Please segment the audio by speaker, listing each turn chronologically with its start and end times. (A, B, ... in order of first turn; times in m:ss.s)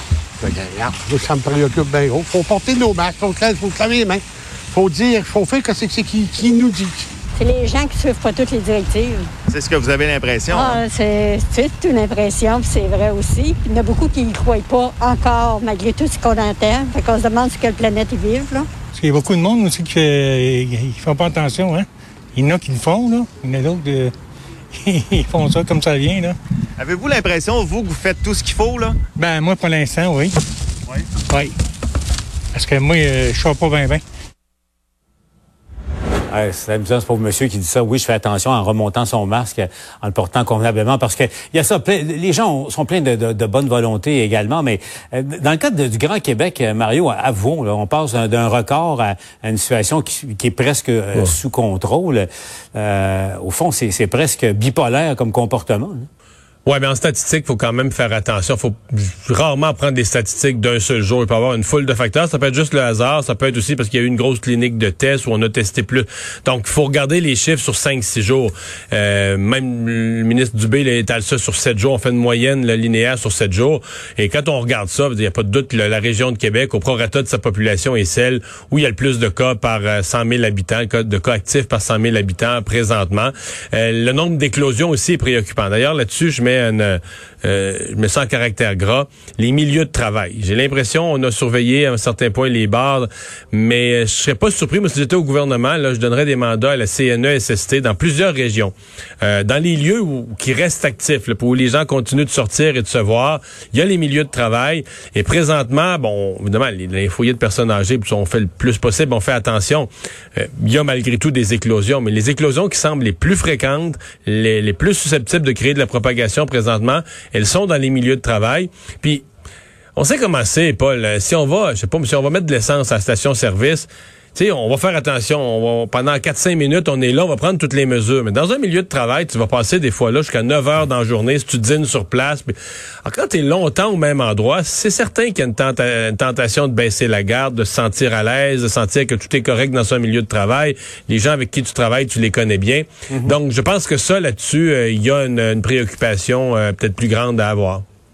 0:00.4-0:07.1 A
0:07.4-0:09.2 B
0:09.5-0:10.9 C
0:10.6-0:18.6 B
0:18.9-0:24.1 D
0:24.8-0:26.4 D
0:26.8-0:29.0 C
0:29.2-0:30.3 D
0:32.5-0:34.0 D
0:36.3-0:56.1 E
0:56.7-1:59.2 F
2:00.0-2:27.8 F
2:23.1-2:23.4 E